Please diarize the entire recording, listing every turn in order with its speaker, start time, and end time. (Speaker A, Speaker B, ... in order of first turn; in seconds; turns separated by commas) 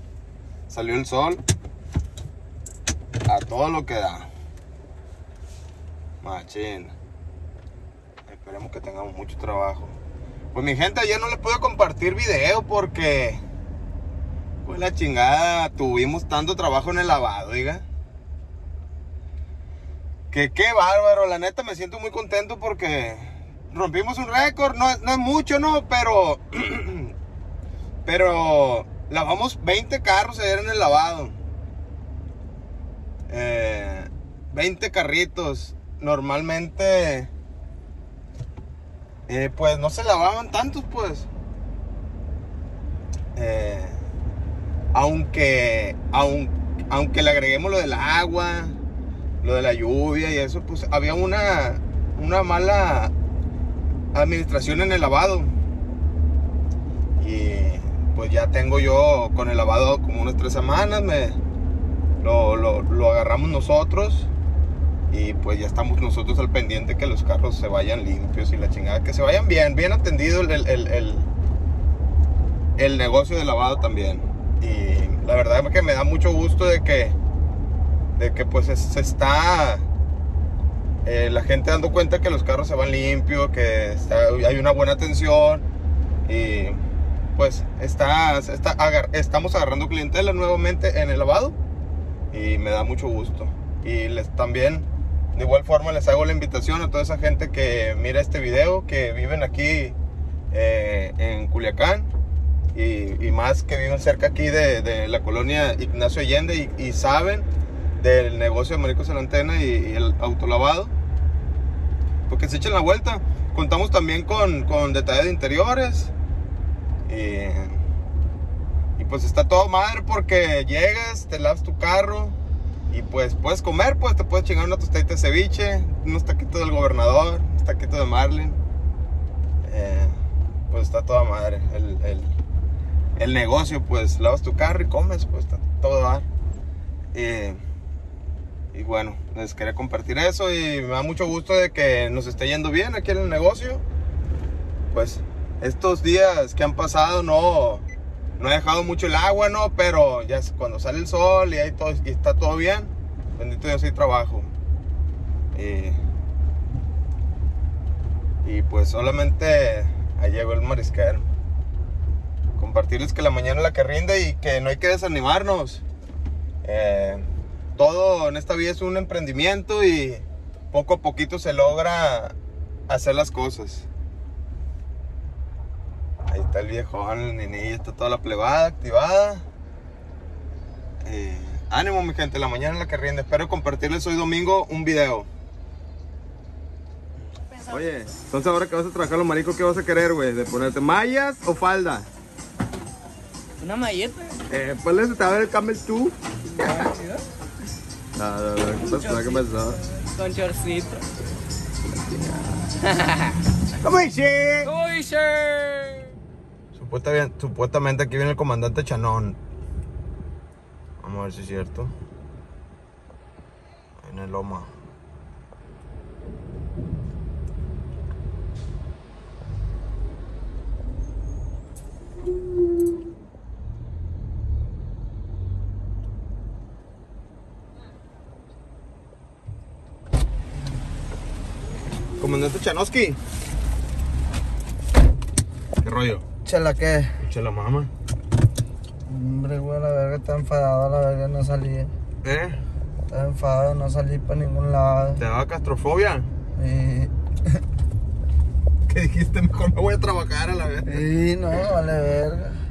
Speaker A: 0.7-1.4, Speaker A: 3.2-4.3, Speaker A: 6.2-6.9, Speaker A: 8.3-9.9, Speaker A: 10.5-13.4, Speaker A: 14.6-17.8, Speaker A: 20.3-27.1, Speaker A: 28.0-31.3, Speaker A: 33.3-37.3, Speaker A: 39.3-41.3, Speaker A: 43.4-44.0, Speaker A: 44.9-48.8, Speaker A: 49.4-53.1, Speaker A: 54.1-55.5, Speaker A: 57.2-61.4, Speaker A: 62.2-64.3, Speaker A: 65.1-71.3, Speaker A: 72.8-77.2, Speaker A: 78.2-79.8, Speaker A: 81.0-85.6, Speaker A: 86.3-86.8, Speaker A: 87.3-91.6, Speaker A: 92.3-100.0, Speaker A: 100.5-102.1, Speaker A: 102.7-107.5, Speaker A: 108.0-110.9, Speaker A: 112.3-116.1, Speaker A: 117.1-117.8, Speaker A: 119.0-122.4, Speaker A: 122.9-128.6, Speaker A: 129.6-130.1, Speaker A: 130.7-132.3, Speaker A: 133.2-136.2, Speaker A: 137.1-137.6, Speaker A: 138.7-143.8, Speaker A: 144.9-147.8, Speaker A: 148.4-154.5, Speaker A: 155.5-156.0, Speaker A: 158.4-161.3, Speaker A: 162.6-165.8, Speaker A: 166.6-172.3, Speaker A: 172.9-173.9, Speaker A: 176.3-179.4, Speaker A: 181.1-185.3, Speaker A: 187.7-192.1, Speaker B: 193.6-194.4, Speaker A: 194.5-196.8, Speaker B: 196.5-197.2, Speaker A: 198.2-199.8, Speaker B: 198.8-201.0, Speaker B: 202.7-203.4, Speaker A: 203.8-204.7, Speaker B: 204.6-206.1, Speaker A: 206.7-209.4, Speaker A: 211.0-211.9, Speaker A: 214.0-214.7, Speaker A: 232.2-233.2, Speaker A: 235.8-236.2, Speaker C: 236.4-237.1, Speaker A: 237.2-237.9, Speaker C: 239.1-241.9, Speaker A: 242.2-242.6, Speaker C: 243.1-245.2, Speaker A: 245.2-246.3, Speaker C: 246.6-247.1, Speaker A: 248.9-251.7, Speaker C: 250.8-252.6